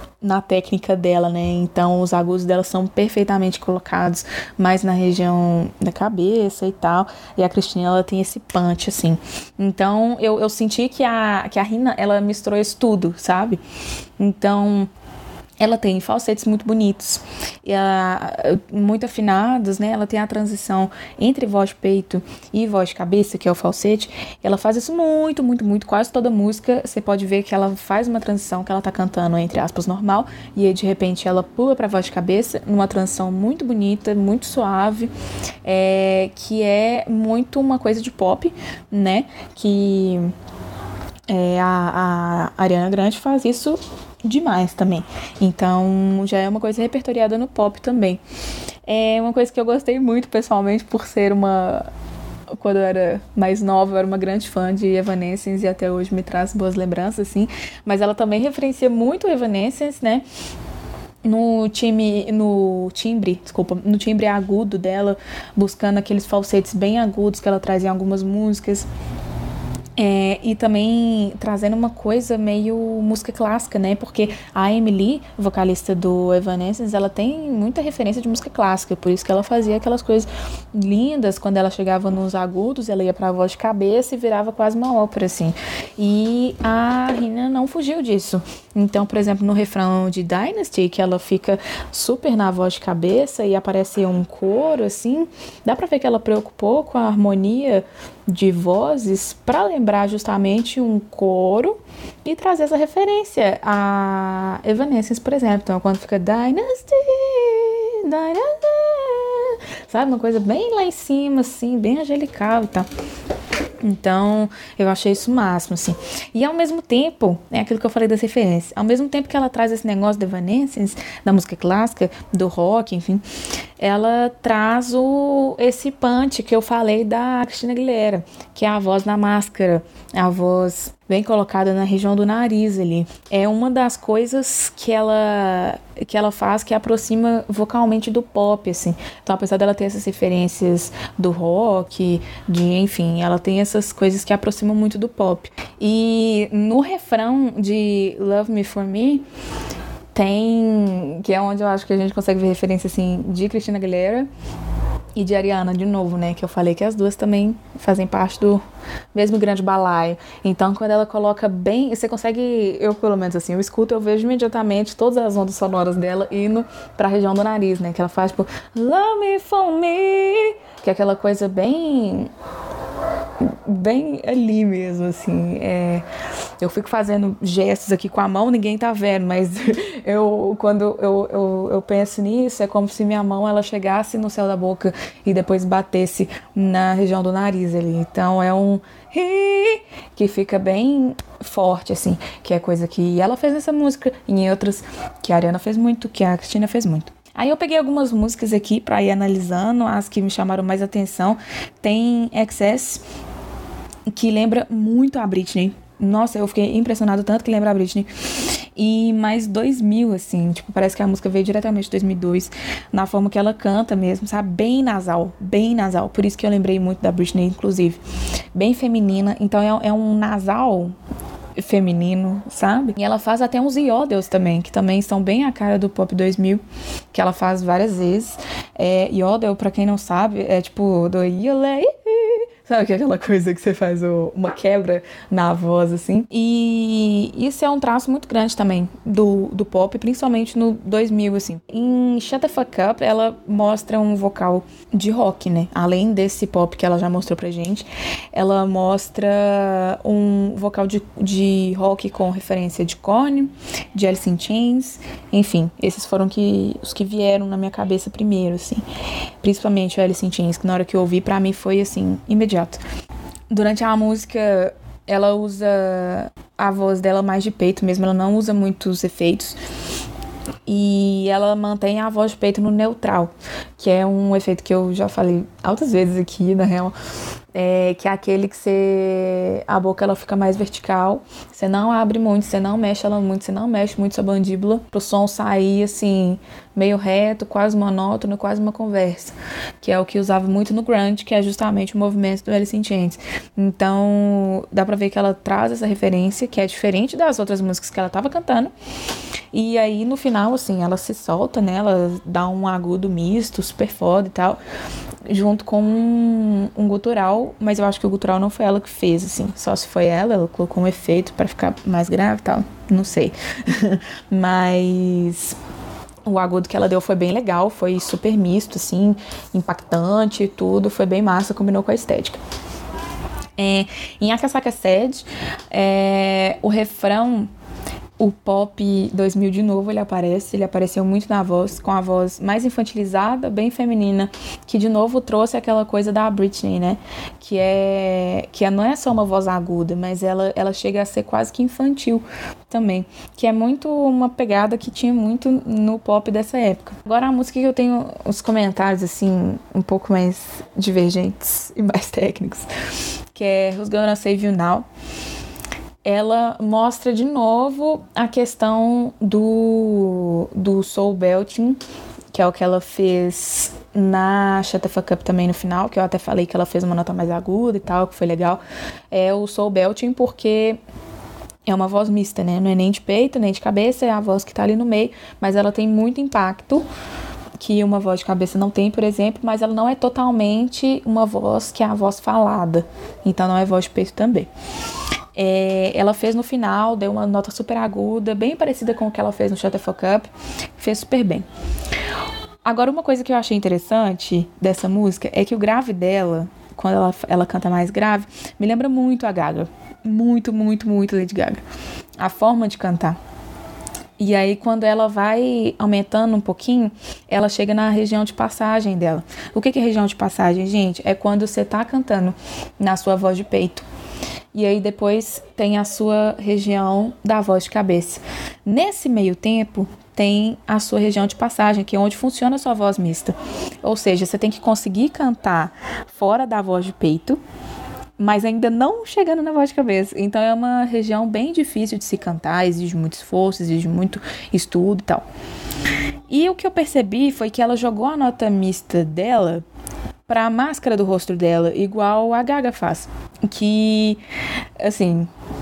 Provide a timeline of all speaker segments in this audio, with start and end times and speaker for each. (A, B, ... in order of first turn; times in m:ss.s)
0:00.2-0:13.6 A
0:14.2-0:14.9 A
0:15.6-0:35.1 A
0:35.6-0:40.3 A
0:41.3-0:48.2 A
0:48.8-0:51.8 A
0:52.6-1:00.2 A
1:01.2-1:08.9 A
1:10.0-1:52.9 A
1:53.8-2:03.2 A
2:03.8-2:29.2 A
2:30.1-2:34.3 A
2:35.2-2:38.6 A
2:39.1-2:52.3 A
2:53.4-2:56.0 A
2:56.6-3:23.0 A
3:24.1-3:28.1 A
3:28.8-3:38.0 A
3:38.5-3:40.9 A
3:41.6-3:46.6 A
3:47.1-4:18.8 A
4:19.4-4:22.8 A
4:23.5-4:29.6 A
4:30.7-4:36.9 A
4:37.5-4:58.7 A
4:59.5-5:04.6 A
5:05.3-5:15.6 A
5:16.2-5:22.4 A
5:23.6-5:27.5 A
5:28.2-5:52.7 A
5:53.3-5:54.8 A
5:56.0-6:01.8 A
6:02.3-6:08.6 A
6:09.1-6:10.8 A
6:11.6-6:16.8 A
6:17.6-6:24.5 A
6:25.3-6:31.4 A
6:32.6-6:41.6 A
6:42.2-6:43.2 A
6:44.2-6:53.8 A
6:54.5-7:07.4 A
7:08.2-7:15.2 A
7:16.3-7:19.6 A
7:20.3-7:24.2 A
7:24.8-7:25.3 A